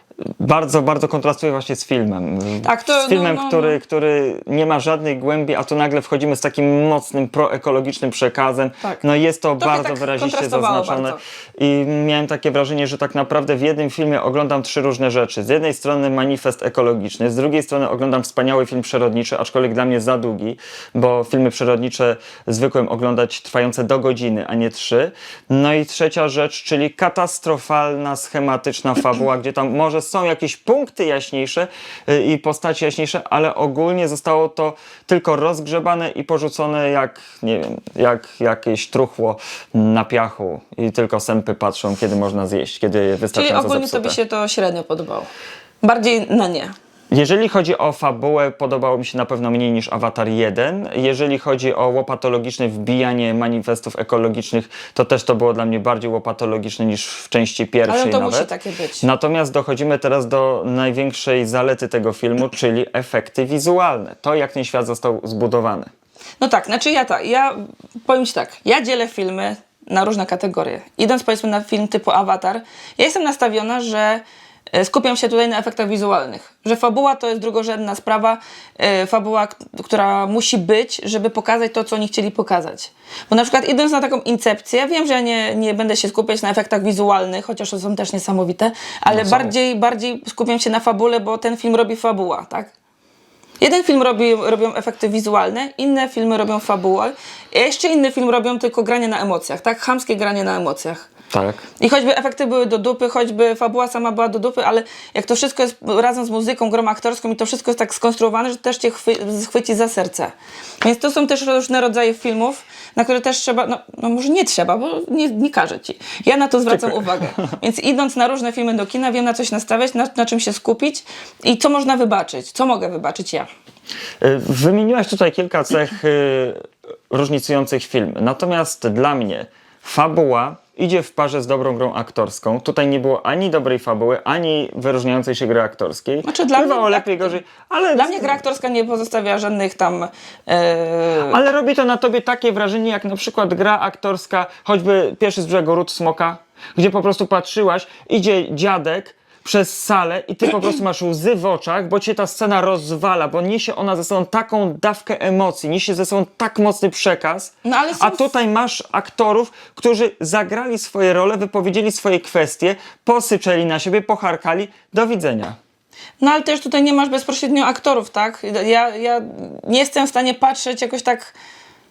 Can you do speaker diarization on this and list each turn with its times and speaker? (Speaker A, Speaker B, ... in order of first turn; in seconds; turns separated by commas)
Speaker A: 0.2-44.2, Speaker B: 2.6-3.8, Speaker B: 9.6-11.2, Speaker B: 43.3-45.3, Speaker B: 45.8-46.7, Speaker A: 47.1-58.5, Speaker B: 57.9-59.0, Speaker A: 59.0-65.9, Speaker B: 66.4-92.7, Speaker A: 89.1-89.5, Speaker B: 93.6-101.1, Speaker A: 101.3-101.6, Speaker B: 101.8-123.5, Speaker A: 116.7-117.5, Speaker A: 124.2-138.4, Speaker B: 136.2-137.4, Speaker B: 137.9-141.4, Speaker A: 141.3-165.6, Speaker B: 157.6-158.3, Speaker B: 166.2-171.3